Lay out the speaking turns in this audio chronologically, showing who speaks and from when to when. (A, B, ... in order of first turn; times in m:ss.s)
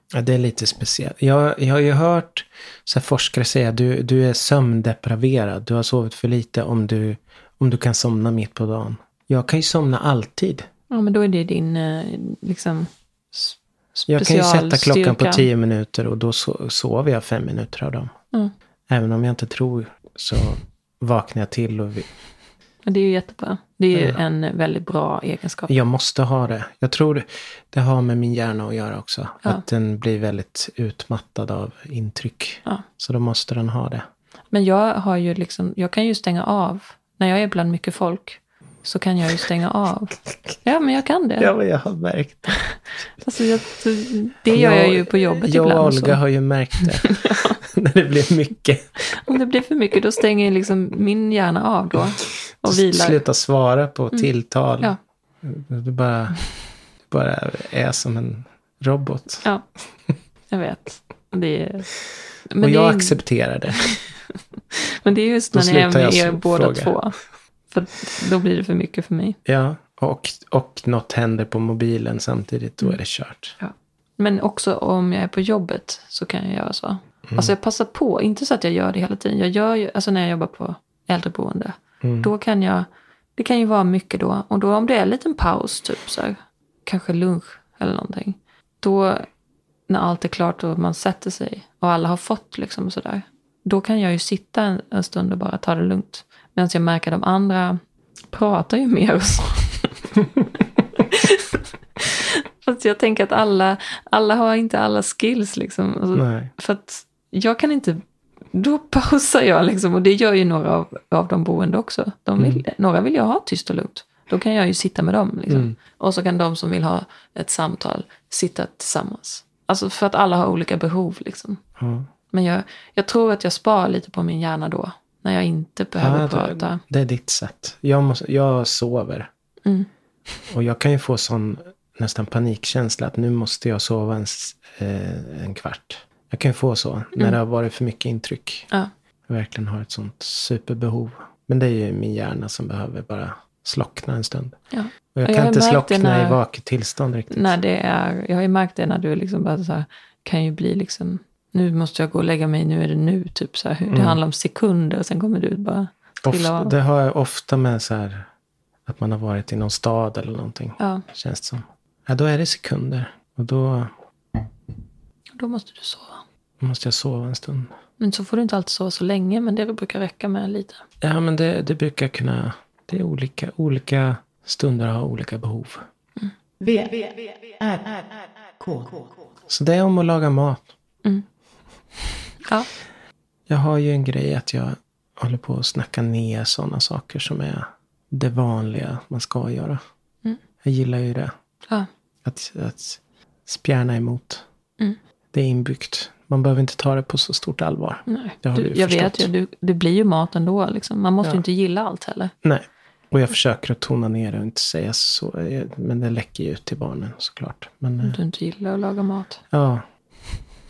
0:00.1-0:10.7 A
0:10.9-0:15.5 B
0:14.1-0:18.1 A
0:18.9-0:22.1 A
0:22.8-0:25.8 B
0:23.9-0:24.2 A
0:25.7-0:34.1 A
0:34.5-0:41.5 B
0:41.4-0:42.6 A
0:42.6-0:46.2 B
0:44.5-0:49.2 A
0:46.8-0:47.6 B
0:49.1-0:53.2 B
0:52.6-0:56.4 A
0:57.1-0:59.4 A
1:00.5-1:01.9 B
1:02.5-1:03.2 B
1:02.6-1:03.9 A
1:04.7-1:07.2 B
1:05.5-1:07.0 A
1:07.7-1:09.4 B
1:09.5-1:13.6 A
1:13.6-1:29.3 B
1:22.0-1:22.3 A
1:29.9-1:37.8 B
1:38.3-1:40.2 B
1:41.0-1:48.0 B
1:46.2-1:46.5 A
1:48.5-2:01.6 B
1:52.4-1:52.6 A
1:55.5-1:55.8 A
2:01.8-2:02.1 A
2:02.3-2:06.8 B
2:06.0-2:09.3 A
2:10.5-2:18.7 A
2:19.3-2:24.6 A
2:24.7-2:26.4 B
2:25.2-2:27.5 A
2:27.3-2:36.7 B
2:33.9-2:34.2 A
2:36.2-2:38.3 A
2:38.9-2:43.9 A
2:40.8-2:41.0 B
2:45.4-2:46.2 B
2:46.6-2:47.7 A
2:48.0-2:50.8 B
2:51.0-2:55.8 A
2:56.6-2:59.3 C
2:59.5-3:00.7 A
3:02.4-3:02.7 B
3:03.5-3:09.8 A
3:10.6-3:11.3 A
3:12.2-3:14.4 A
3:15.3-3:19.3 A
3:18.1-3:22.3 B
3:22.4-3:28.2 A
3:28.0-3:29.4 B
3:29.5-3:29.8 A